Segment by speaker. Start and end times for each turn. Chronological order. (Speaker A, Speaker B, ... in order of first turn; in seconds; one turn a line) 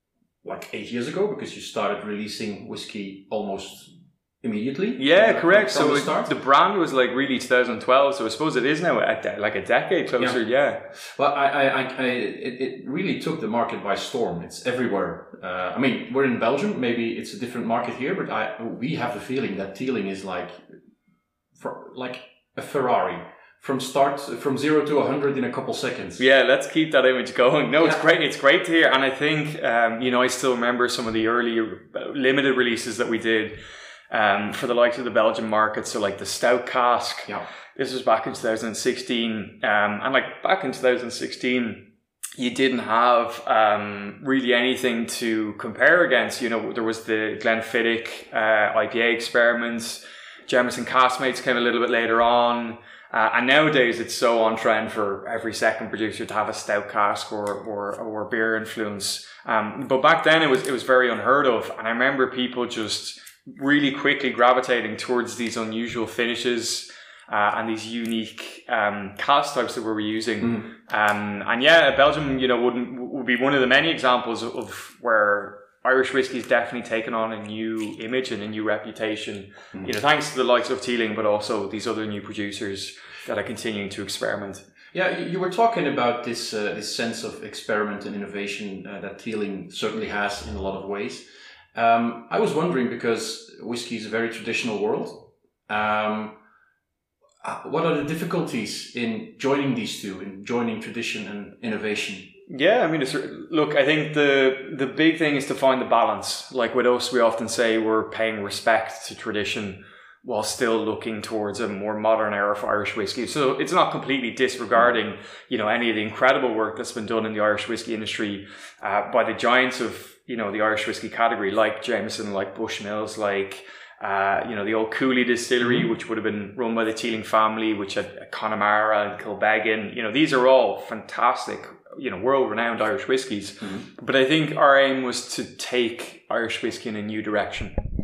Speaker A: 0.4-6.3
Speaker B: 5.0-10.8
Speaker A: 10.9-20.6
Speaker A: 21.6-26.2
Speaker B: 26.2-33.6
Speaker B: 34.1-41.9
Speaker B: 42.4-84.6
Speaker A: 70.4-70.7
Speaker A: 84.9-96.4
Speaker A: 97.4-102.3
Speaker B: 102.5-137.8
Speaker A: 125.6-125.9
Speaker A: 133.6-133.9